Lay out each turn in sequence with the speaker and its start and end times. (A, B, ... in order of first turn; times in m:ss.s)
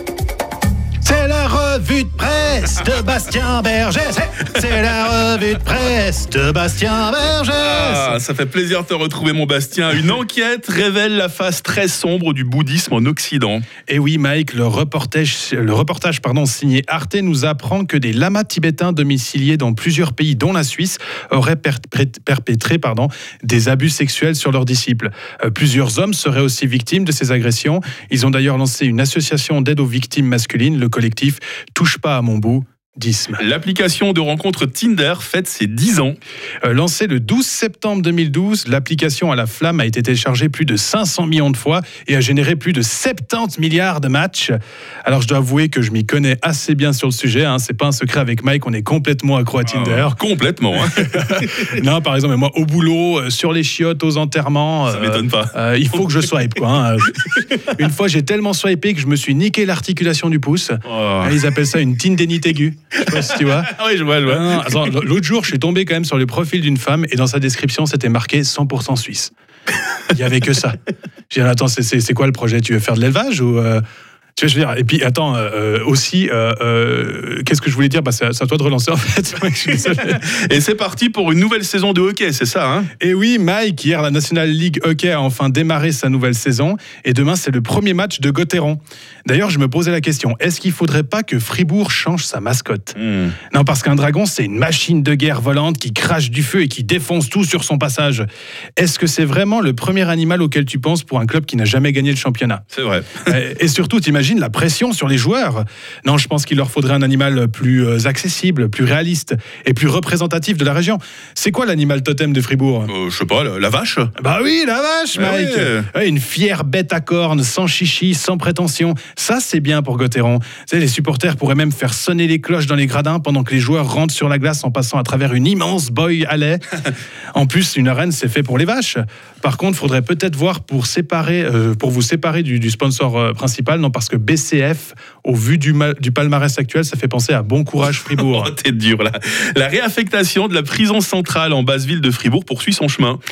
0:01.0-0:08.2 A
0:07.6-0:13.6 B
0:13.9-0:33.4 A
0:33.4-0:36.2 B
0:36.6-0:50.2 A
0:49.7-0:51.7 B
0:50.8-1:03.7 A
0:54.9-0:55.5 B
0:57.2-0:57.7 B
1:00.9-1:01.4 B
1:03.0-1:05.0 B
1:04.2-1:09.3 A
1:10.1-1:10.8 A
1:11.3-1:13.8 A
1:14.4-1:20.2 A
1:20.0-1:22.9 B
1:23.0-1:33.0 A
1:33.0-1:33.4 B
1:33.5-1:38.3 A
1:38.8-1:42.6 A
1:42.7-1:43.3 B
1:43.3-1:52.9 A
1:52.9-1:54.1 B
1:54.2-2:06.6 A
1:55.2-1:55.9 B
2:07.4-2:18.5 A
2:18.1-2:23.2 B